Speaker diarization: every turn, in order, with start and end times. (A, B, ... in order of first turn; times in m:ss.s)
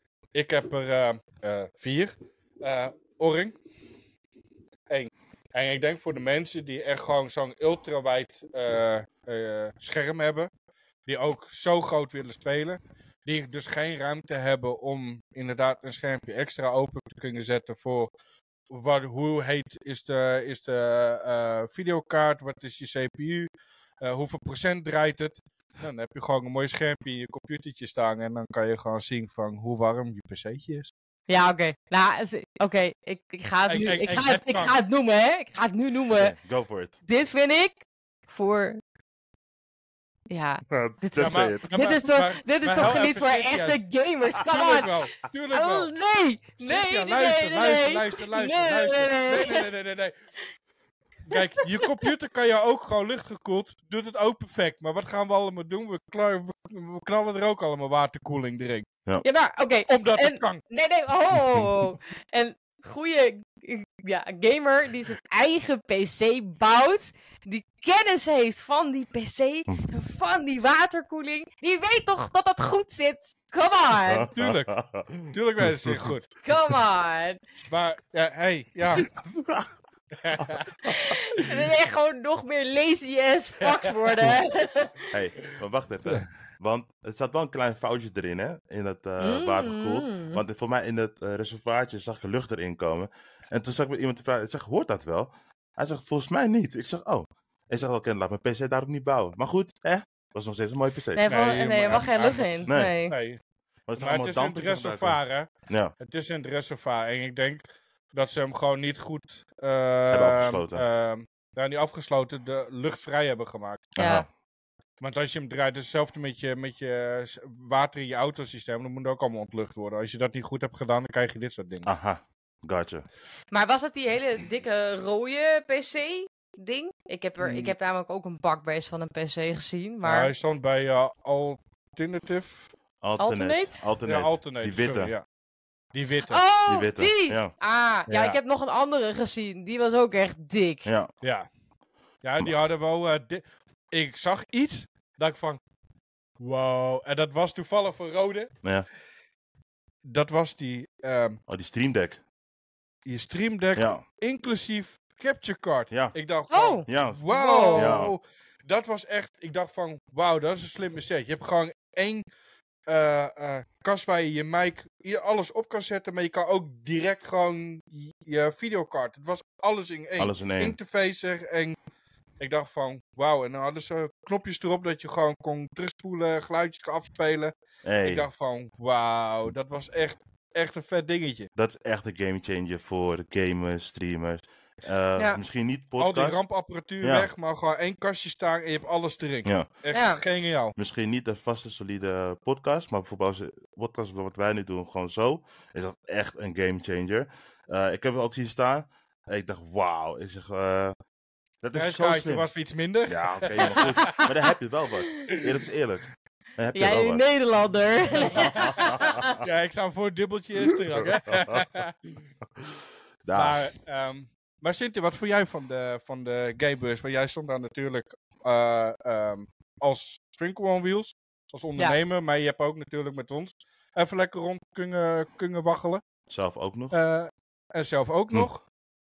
0:00.3-0:03.6 A
0:04.9-0:10.5 A
0:11.1-0:18.1 A
0:18.7-0:23.5 A
0:24.0-0:30.9 A
0:31.3-0:36.4 B
0:33.7-0:34.8 A
0:36.1-0:36.9 C
0:37.1-0:38.8 B
0:40.3-0:49.6 B
0:40.7-0:41.6 C
0:41.2-0:43.8 A
0:44.4-0:45.9 A
0:46.6-0:50.1 A
0:51.2-0:58.9 A
0:59.2-1:14.3 B
0:59.9-1:00.6 A
1:14.1-1:16.1 C
1:14.4-1:14.7 A
1:15.3-1:16.3 A
1:16.4-1:17.4 B
1:17.7-1:19.1 A
1:19.0-1:19.7 C
1:20.2-1:20.8 A
1:20.8-1:25.1 B
1:23.6-1:24.3 A
1:25.1-1:41.2 C
1:29.2-1:30.4 B
1:41.2-1:43.2 B
1:41.3-1:43.4 A
1:42.7-1:42.9 C
1:43.9-1:45.9 C
1:44.0-1:45.5 A
1:46.0-1:53.9 A
1:50.1-1:50.8 C
1:54.0-1:54.3 C
1:54.0-1:54.2 B
1:55.0-2:01.9 A
2:01.8-2:03.0 C
2:03.5-2:10.3 B
2:07.4-2:07.7 A
2:10.0-2:12.7 A
2:13.0-2:15.1 C
2:13.2-2:13.8 B
2:14.0-2:15.2 A
2:15.9-2:16.4 A
2:16.3-2:20.9 B
2:16.7-2:17.5 C
2:18.1-2:18.4 C
2:20.8-2:21.1 C
2:21.2-2:21.5 A
2:22.2-2:25.6 A
2:26.4-2:28.5 A
2:30.0-2:31.4 A
2:31.5-2:32.2 C
2:33.0-2:42.2 A
2:33.8-2:34.0 C
2:35.9-2:36.2 C
2:36.5-2:38.1 B
2:36.9-2:37.2 C
2:37.7-2:38.1 C
2:42.9-2:51.8 A
2:50.2-2:50.8 C
2:52.4-3:01.5 A
2:57.8-2:58.3 C
3:01.6-3:06.5 C
3:06.0-3:10.8 A
3:07.0-3:07.3 C
3:09.9-3:10.2 B
3:10.8-3:21.0 C
3:21.6-3:22.5 C
3:21.7-3:24.3 A
3:23.1-3:26.1 C
3:26.6-3:27.2 C
3:26.7-3:29.4 B
3:28.3-3:28.8 A
3:28.4-3:29.4 C
3:29.4-3:32.0 A
3:33.2-3:33.6 C
3:33.3-3:46.0 A
3:46.3-3:47.0 C
3:46.9-3:48.7 A